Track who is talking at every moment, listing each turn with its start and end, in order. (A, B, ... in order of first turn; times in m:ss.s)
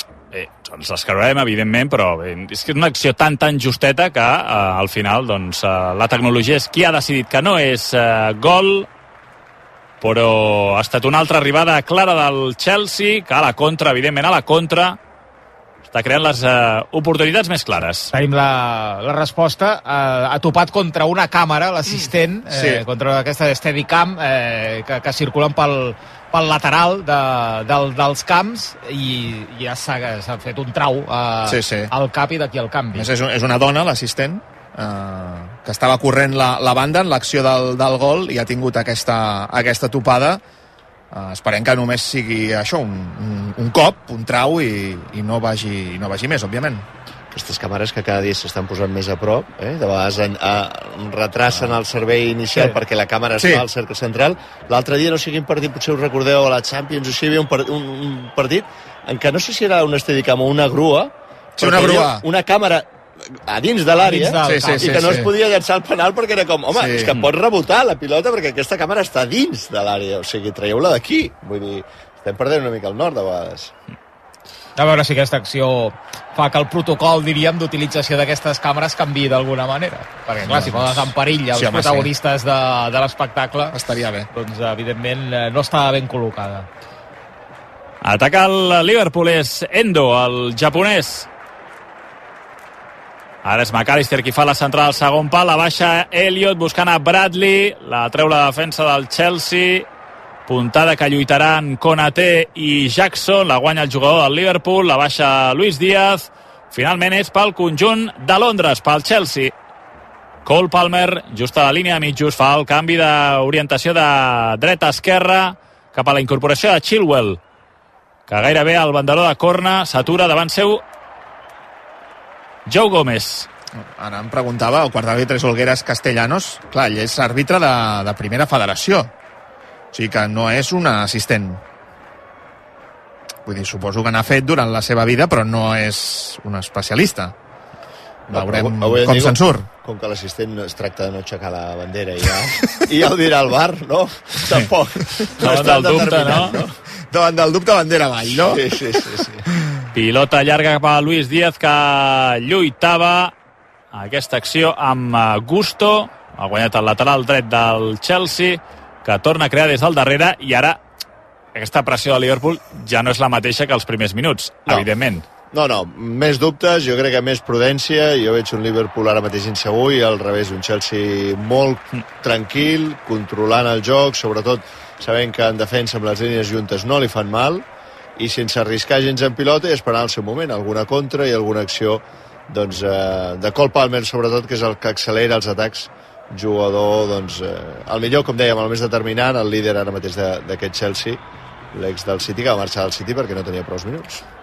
0:00.3-0:08.9 A
0:10.0-0:15.0 A
0:15.9-0:18.1 A
0:18.1-0:33.1 B
0:21.9-0:22.8 C
0:31.5-0:31.9 C
0:32.9-0:40.4 C
0:41.1-0:46.9 C
0:47.3-1:13.7 D
0:53.4-0:53.6 C
1:01.6-1:02.2 C
1:04.0-1:05.2 B
1:04.4-1:05.3 C
1:06.7-1:07.2 C
1:14.8-1:23.8 B
1:20.5-1:22.1 C
1:23.7-1:24.3 C
1:24.3-1:26.7 B
1:28.0-1:31.3 A
1:33.4-1:39.9 A
1:40.5-1:49.5 A
1:50.4-1:57.4 A
1:58.3-2:00.8 A
2:02.7-2:03.5 A
2:03.8-2:09.1 C
2:09.9-2:11.6 C
2:13.5-2:17.3 C
2:18.3-2:26.8 D
2:18.3-2:19.7 C
2:25.4-2:26.6 A
2:27.1-2:28.6 C
2:28.4-2:29.5 D
2:29.9-2:33.3 A
2:33.9-2:40.8 A
2:41.5-2:45.2 A
2:45.5-2:57.6 D
2:58.2-3:11.2 D
3:11.7-3:14.2 D